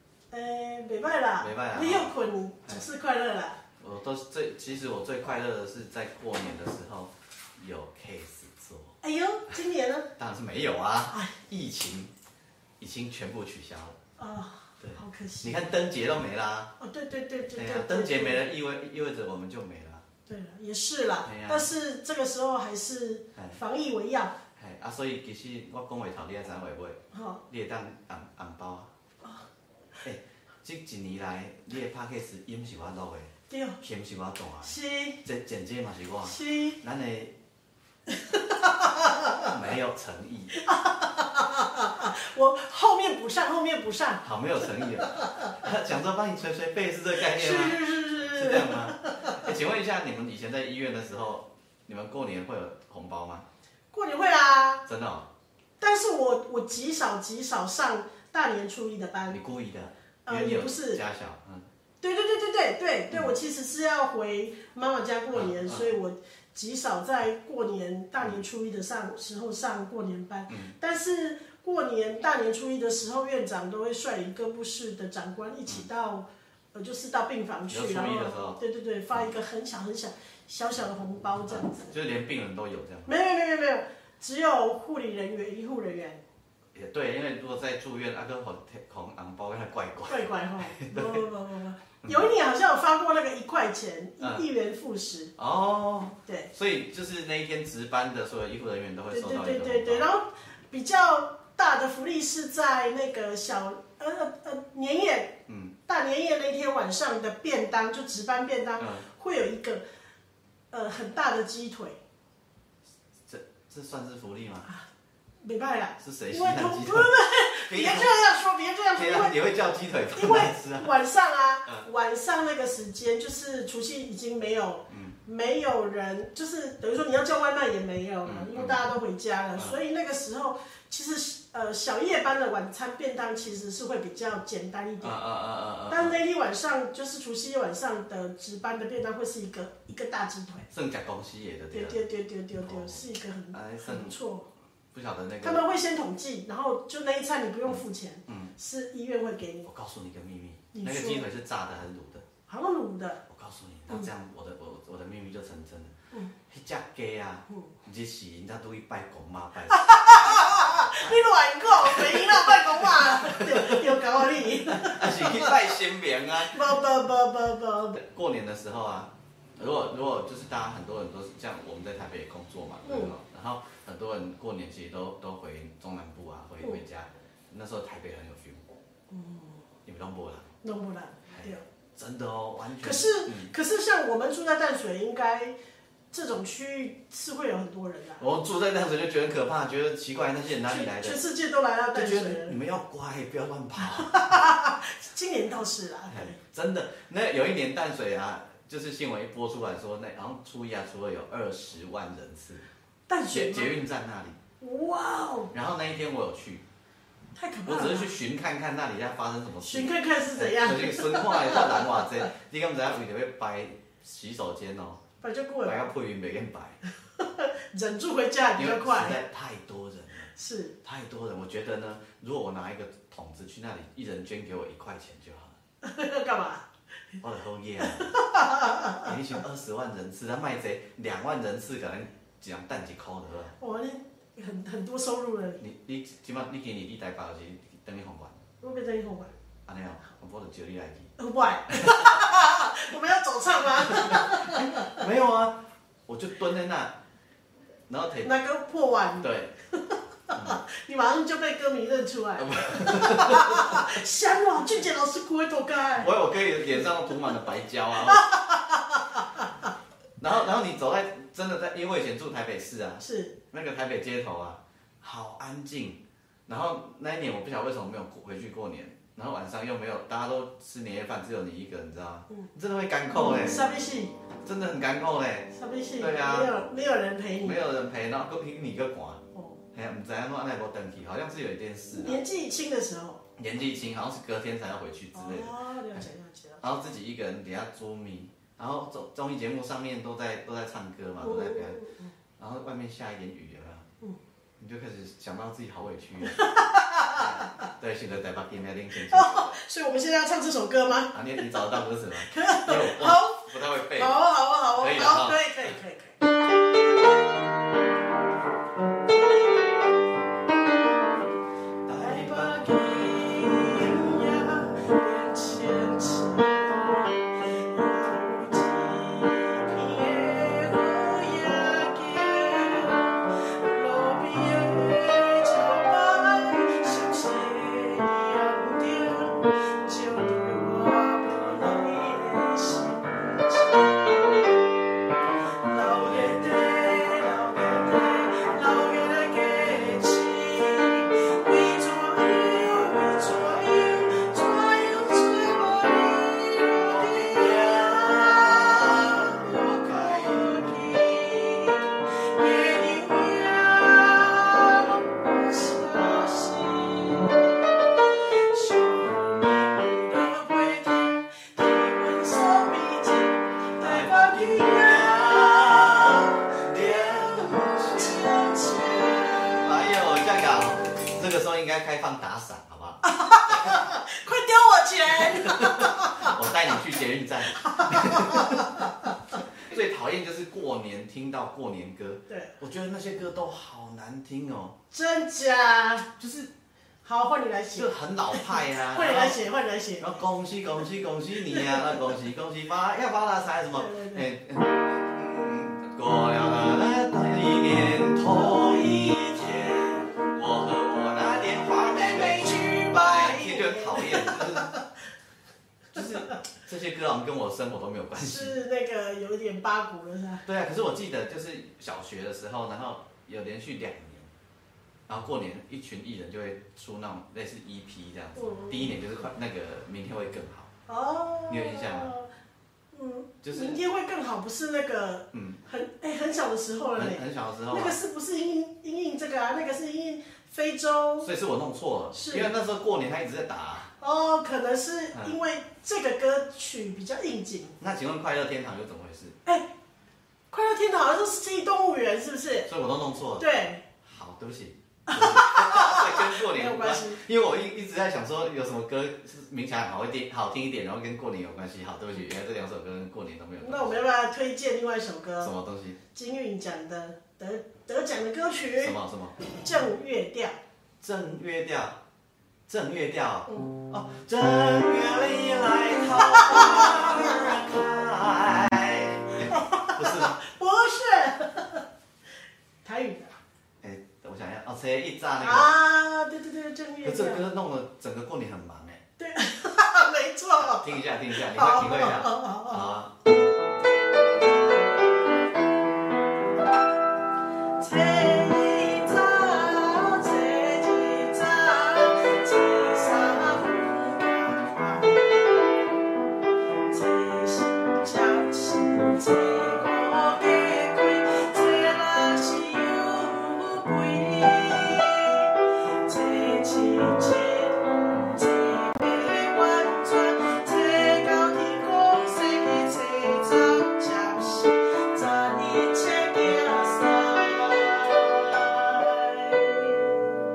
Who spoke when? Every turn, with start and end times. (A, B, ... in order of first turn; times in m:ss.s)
0:00.3-0:03.6 A
0:01.4-0:02.1 B
0:03.8-0:09.0 B
0:09.0-0:10.1 A
0:10.2-0:12.1 B
0:12.8-0:14.0 B
0:14.2-0:15.6 A
0:14.8-0:16.7 B
0:16.8-0:18.4 A
0:17.5-0:20.0 B
0:20.3-0:24.3 A
0:21.2-0:21.7 B
0:24.6-0:28.9 B
0:27.1-0:27.4 A
0:30.0-0:37.3 B
0:33.5-0:33.8 A
0:34.6-0:35.2 A
0:36.2-0:36.8 A
0:38.1-0:39.5 A
0:39.4-0:40.6 B
0:40.6-0:44.2 A
0:44.2-0:53.4 B
0:44.8-0:45.5 A
0:47.2-0:49.5 A
0:53.9-0:54.8 A
0:54.9-0:55.2 B
0:55.8-0:59.4 A
0:59.3-1:01.7 B
1:00.2-1:01.0 A
1:02.0-1:21.9 A
1:05.3-1:05.9 B
1:10.5-1:10.7 B
1:17.7-1:18.6 B
1:21.5-1:23.1 B
1:23.0-1:26.2 A
1:26.7-1:31.2 B
1:30.1-1:35.3 A
1:35.4-1:40.1 B
1:39.1-1:45.4 A
1:45.5-1:45.8 B
1:45.9-1:49.8 A
1:48.8-1:49.0 B
1:50.7-1:52.0 A
1:53.3-1:54.7 B
1:55.4-1:59.4 A
1:56.0-1:57.1 B
1:57.6-1:58.1 B
1:58.9-2:00.9 B
2:00.1-2:15.2 A
2:04.9-2:05.2 B
2:08.2-2:08.8 B
2:15.0-2:16.1 B
2:15.9-2:20.7 A
2:20.7-2:22.0 B
2:21.7-2:24.5 A
2:22.6-2:24.1 B
2:24.9-2:25.6 B
2:25.4-2:29.7 A
2:27.6-2:28.5 B
2:29.6-2:32.2 B
2:30.7-2:31.2 A
2:32.5-2:33.2 A
2:33.3-2:35.9 B
2:36.5-2:41.1 B
2:39.7-2:45.7 A
2:41.8-2:43.8 B
2:44.4-2:46.8 B
2:46.5-2:48.0 A
2:47.9-2:58.6 B
2:52.8-2:53.1 A
2:59.1-2:59.6 A
2:59.8-3:00.5 B
3:00.6-3:01.6 A
3:01.3-3:03.5 B
3:02.8-3:05.5 A
3:06.1-3:08.2 A
3:08.2-3:11.2 B
3:10.6-3:12.6 A
3:11.9-3:14.3 B
3:13.8-3:16.4 A
3:16.1-3:22.6 B
3:23.1-3:23.7 A
3:23.3-3:24.4 B
3:24.6-3:25.5 A
3:25.5-3:26.6 B
3:27.3-3:28.1 A
3:27.6-3:35.0 B
3:29.6-3:32.2 A
3:35.2-3:35.9 A
3:35.6-3:36.8 B
3:37.2-3:39.2 A
3:38.6-3:40.3 B
3:40.3-3:40.7 A
3:40.8-3:45.6 B
3:45.8-3:46.6 A
3:47.2-3:48.1 B
3:48.0-3:49.4 A
3:49.0-3:53.6 B
3:53.6-3:55.6 A
3:55.6-3:58.4 B
3:58.6-3:59.3 A
3:59.7-4:01.1 B
4:01.2-4:05.0 A
4:04.0-4:06.9 B
4:07.9-4:08.3 B
4:08.2-4:16.1 A
4:09.2-4:09.5 B
4:10.3-4:10.6 B
4:12.4-4:13.8 B
4:16.0-4:18.2 B
4:18.0-4:19.5 A
4:20.2-4:33.6 B
4:23.0-4:23.4 A
4:33.1-4:34.1 A
4:34.4-4:36.6 B
4:35.5-4:37.6 A
4:37.4-4:39.2 B
4:39.3-4:39.6 A
4:39.7-4:42.2 B
4:41.9-4:43.2 A
4:43.4-4:46.0 B
4:45.1-4:46.6 A
4:46.6-4:51.8 B
4:51.2-4:52.1 A
4:52.4-4:53.8 B
4:54.6-4:56.5 B
4:56.2-4:57.5 A
4:57.1-4:59.6 B
4:59.1-5:07.1 A
5:01.1-5:04.2 B
5:04.8-5:05.4 B
5:09.1-5:10.0 A
5:11.8-5:12.8 B
5:12.0-5:34.6 A
5:35.6-6:09.7 A
5:46.7-5:50.6 B
6:03.8-6:08.3 B
6:09.5-6:13.8 B
6:13.0-6:16.4 A
6:15.1-6:18.8 B
6:17.5-6:19.1 A
6:19.6-6:24.7 B
6:22.3-6:22.6 A
6:24.9-6:26.1 A
6:26.2-6:26.5 B
6:27.0-6:30.1 A
6:27.7-6:29.4 B
6:30.0-6:44.7 B
6:31.5-6:32.1 A
6:33.7-6:34.2 A
6:38.3-6:40.1 A
6:41.9-6:44.8 A
6:45.9-6:48.5 B
6:48.1-6:50.4 A
6:50.4-6:54.3 B
6:55.1-7:00.7 B
6:58.4-6:59.0 A
7:00.9-7:02.3 A
7:01.5-7:02.1 B
7:02.9-7:11.3 A
7:03.4-7:03.8 B
7:05.3-7:05.6 B
7:07.0-7:08.0 B
7:11.2-7:13.9 B
7:12.1-7:12.5 A
7:14.0-7:17.8 A
7:17.8-7:19.3 B
7:20.5-7:22.7 A
7:22.7-7:23.4 B
7:23.4-7:23.8 A
7:24.0-7:34.0 B
7:25.1-7:27.2 A
7:33.6-7:35.5 A
7:35.4-7:36.0 B
7:36.1-7:40.6 A
7:38.8-7:39.4 B
7:41.0-7:42.0 B
7:42.7-7:50.4 B
7:46.2-7:47.3 A
7:49.5-7:51.8 A
7:52.8-7:53.4 A
7:53.8-7:55.7 B
7:55.4-7:57.4 A
7:57.0-7:59.0 B
7:59.2-8:02.8 A
8:00.6-8:03.1 B
8:07.8-8:15.8 A
8:16.9-8:40.3 A